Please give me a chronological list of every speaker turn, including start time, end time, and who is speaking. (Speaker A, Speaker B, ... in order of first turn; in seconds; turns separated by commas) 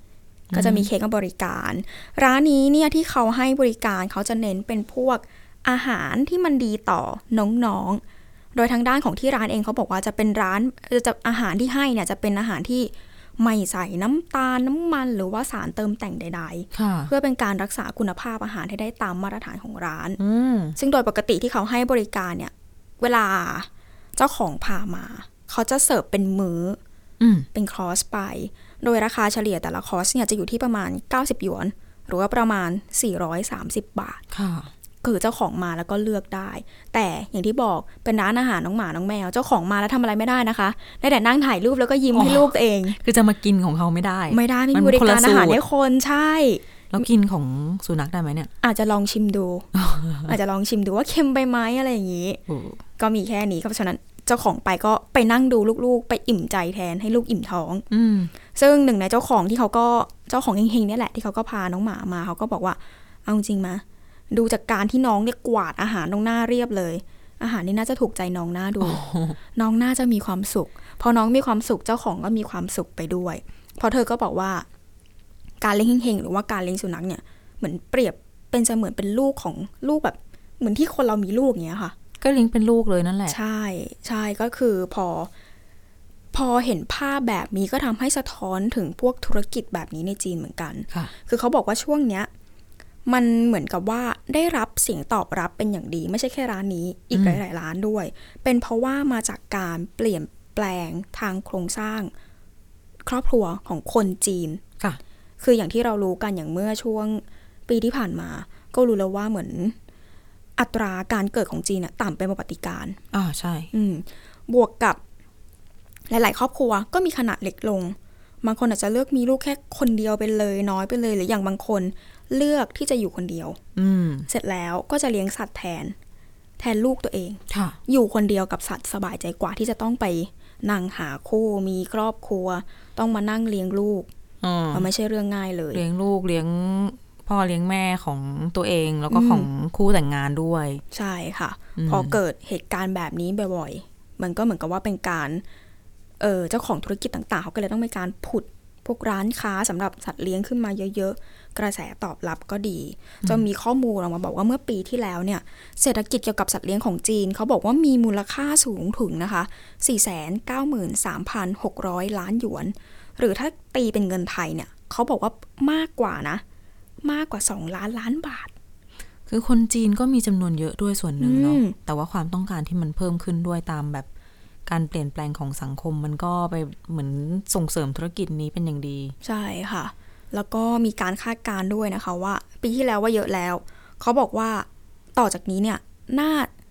Speaker A: 0.5-0.9, Speaker B: 0.5-8.0, Speaker B: 8.6-20.2, Speaker A: 16.7-17.1, Speaker A: 20.2-20.8, Speaker B: 20.8-26.8, Speaker A: 27.2-27.5, Speaker B: 27.5-34.2, Speaker A: 34.3-34.7, Speaker B: 35.0-43.0, Speaker A: 42.1-45.6, Speaker B: 44.3-46.6, Speaker A: 46.9-48.5, Speaker B: 48.6-49.7, Speaker A: 49.7-50.4, Speaker B: 50.2-52.4, Speaker A: 52.5-52.8, Speaker B: 53.0-57.9, Speaker A: 57.9-58.3, Speaker B: 58.5-69.0, Speaker A: 68.8-69.4, Speaker B: 69.5-74.7, Speaker B: 75.6-82.0, Speaker A: 82.2-83.4, Speaker B: 83.3-85.3, Speaker B: 86.3-92.3, Speaker B: 93.1-102.1, Speaker A: 97.1-97.4, Speaker B: 103.0-104.6, Speaker B: 105.4-109.8, Speaker B: 110.6-113.0, Speaker A: 113.1-113.7, Speaker B: 113.7-115.0, Speaker B: 116.1-123.6, Speaker A: 123.8-124.3, Speaker B: 124.3-126.0, Speaker B: 126.6-134.1, Speaker A: 127.5-127.8, Speaker A: 134.4-134.9, Speaker B: 134.7-135.8, Speaker A: 135.7-140.8, Speaker B: 139.1-139.5, Speaker B: 140.9-145.4, Speaker A: 141.8-142.2, Speaker B: 146.2-166.4, Speaker B: 167.0-168.5, Speaker A: 169.3-174.1, Speaker B: 171.2-171.8, Speaker A: 174.7-179.2, Speaker B: 179.2-186.5